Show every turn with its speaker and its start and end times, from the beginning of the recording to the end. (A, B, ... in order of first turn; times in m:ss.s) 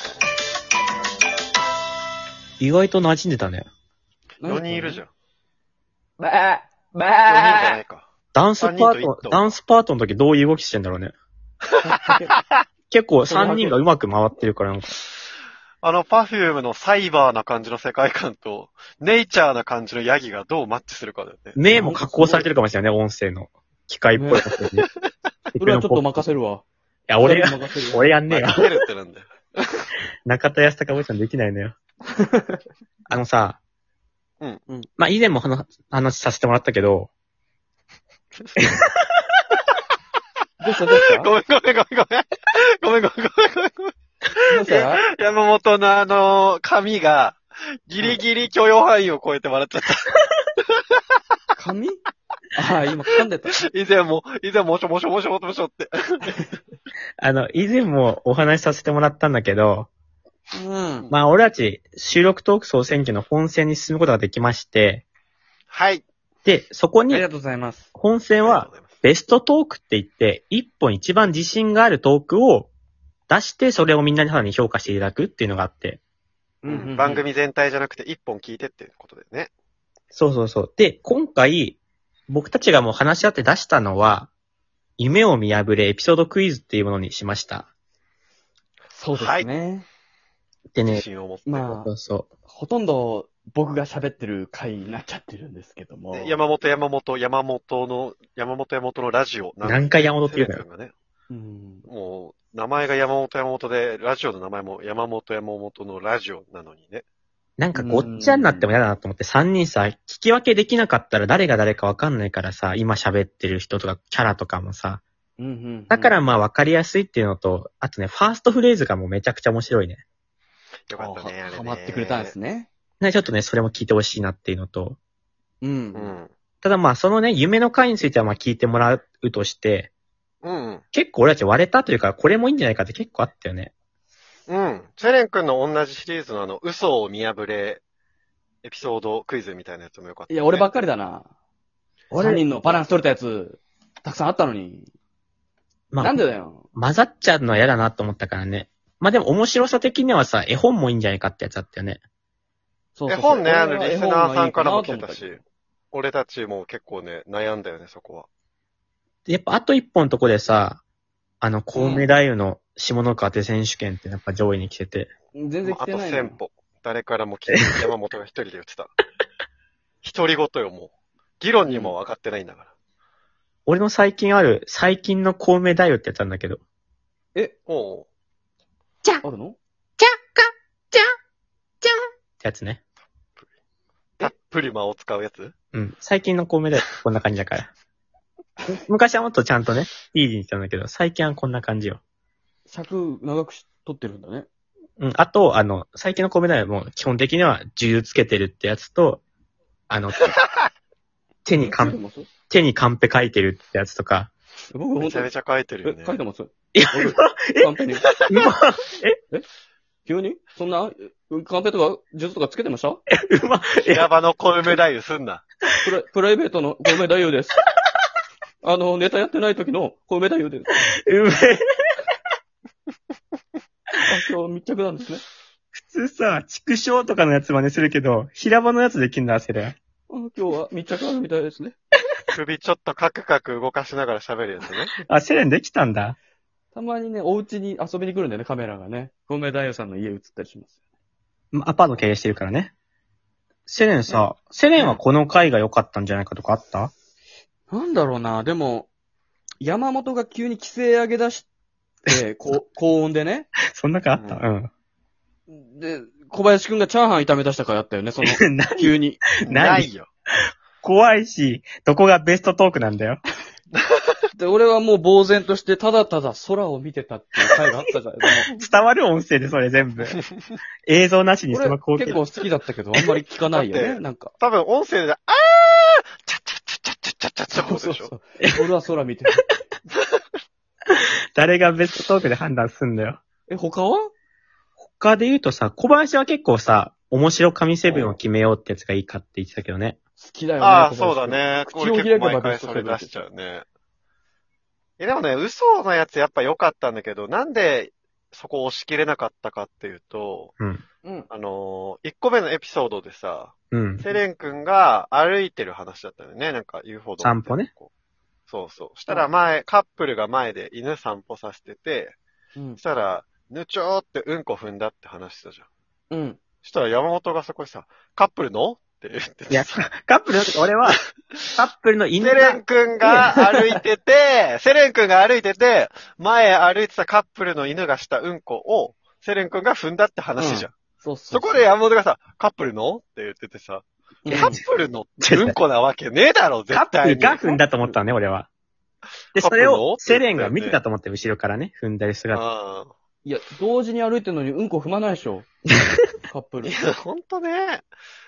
0:02.6-0:03.7 A
0:04.4-0:05.0 B
0:04.4-0:05.1 C
0:06.2-0:07.8 B
0:07.2-0:08.1 C
0:08.3-0:11.1 A
0:08.6-0:09.6 C
0:11.8-0:12.3 B
0:12.9-0:14.9 A
0:13.2-0:13.8 B
0:15.8-0:21.6 C
0:21.6-0:24.9 A
0:21.7-0:22.5 B
0:24.1-0:24.4 B
0:25.5-0:26.1 A
0:25.6-0:26.6 B
0:27.1-0:28.6 A
0:27.2-0:28.1 B
0:28.3-0:29.8 C
0:30.2-0:31.8 A
0:32.2-0:32.6 B
0:33.1-0:33.6 A
0:35.0-0:37.1 A
0:38.6-0:39.1 A
0:40.6-0:41.3 B
0:40.9-0:43.9 C
0:44.4-0:45.0 B
0:44.4-0:50.1 C
0:51.6-0:52.0 B
0:52.5-0:53.6 B
0:53.7-0:56.3 C
0:57.2-0:59.9 A
1:00.5-1:01.1 B
1:01.1-1:05.0 A
1:05.7-1:06.0 C
1:06.4-1:07.3 A
1:07.1-1:07.9 B
1:07.9-1:12.7 A
1:08.4-1:09.0 C
1:13.3-1:16.0 A
1:16.6-1:17.2 B
1:16.6-1:19.5 C
1:20.1-1:24.3 A
1:25.0-1:27.7 A
1:28.9-1:29.9 B
1:29.1-1:29.5 C
1:30.7-1:31.0 A
1:30.9-1:31.7 C
1:31.5-1:31.9 B
1:31.7-1:32.3 A
1:32.5-1:36.4 B
1:36.1-1:40.9 C
1:39.6-1:40.6 A
1:41.3-1:41.8 B
1:41.8-1:47.0 C
1:47.6-1:55.0 A
1:47.7-1:48.8 B
1:55.4-1:56.2 B
1:55.9-2:00.0 A
2:00.9-2:02.3 C
2:01.0-2:02.7 B
2:03.0-2:05.0 A
2:05.6-2:06.1 B
2:05.9-2:06.3 C
2:06.6-2:09.9 A
2:10.4-2:10.8 C
2:10.9-2:13.7 A
2:14.5-2:17.8 C
2:18.6-2:20.8 C
2:20.3-2:21.3 B
2:22.1-2:22.4 A
2:22.2-2:24.9 B
2:25.9-2:26.2 A
2:26.0-2:26.6 B
2:26.7-2:32.0 A
2:32.9-2:35.4 B
2:33.1-2:35.4 C
2:35.9-2:38.3 C
2:39.2-2:40.8 A
2:41.4-2:45.1 A
2:41.7-2:42.1 B
2:45.3-2:46.4 B
2:45.6-2:48.9 C
2:50.0-2:52.7 C
2:51.7-2:51.9 B
2:53.6-2:56.6 A
2:57.7-2:58.1 C
2:59.2-2:59.6 B
3:00.0-3:01.0 A
3:01.8-3:02.8 A
3:04.2-3:05.5 C
3:05.7-3:07.7 A
3:08.7-3:12.0 A
3:12.7-3:14.5 B
3:15.0-3:19.2 A
3:19.9-3:20.4 A
3:21.4-3:22.0 A
3:21.6-3:22.3 B
3:22.5-3:24.3 A
3:24.7-3:25.3 B
3:25.0-3:26.2 C
3:25.8-3:28.0 B
3:26.7-3:29.2 A
3:30.0-3:33.0 B
3:33.1-3:34.0 A
3:33.9-3:35.4 C
3:35.8-3:37.6 B
3:38.6-3:40.7 B
3:40.8-3:41.6 A
3:44.1-3:45.2 B
3:45.7-3:49.8 A
3:50.1-3:51.8 B
3:52.3-3:54.9 C
3:55.0-3:56.2 A
3:56.7-4:00.7 B
4:01.5-4:02.7 A
4:03.7-4:06.9 A
4:07.7-4:08.9 B
4:09.6-4:11.5 B
4:12.1-4:13.5 B
4:13.7-4:14.7 A
4:14.1-4:14.4 C
4:15.5-4:19.2 B
4:18.2-4:19.9 A
4:19.4-4:20.1 C
4:20.8-4:23.2 A
4:23.7-4:24.1 C
4:24.4-4:28.5 B
4:28.5-4:30.2 A
4:30.1-4:30.6 C
4:30.8-4:32.2 A
4:31.5-4:34.3 B
4:33.5-4:38.1 C
4:37.5-4:39.4 B
4:40.9-4:43.2 A
4:43.5-4:44.1 B
4:44.9-4:50.0 A
4:50.2-4:53.1 B
4:50.6-4:53.6 C
4:55.0-5:00.5 C
5:00.6-5:00.8 A
5:01.3-5:07.9 C
5:03.7-5:04.0 A
5:07.2-5:07.7 A
5:08.5-5:12.2 C
5:12.8-5:15.6 C
5:16.1-5:16.4 B
5:16.6-5:19.9 C
5:19.5-5:21.0 A
5:21.5-5:23.6 A
5:22.2-5:30.7 C
5:30.4-5:31.7 B
5:31.3-5:37.7 C
5:34.2-5:34.6 B
5:34.3-5:34.6 A
5:35.2-5:35.6 A
5:36.7-5:38.5 A
5:39.3-5:42.4 A
5:39.4-5:40.8 C
5:42.3-5:42.9 C
5:43.2-5:45.5 B
5:46.3-5:46.7 B
5:46.6-5:47.9 C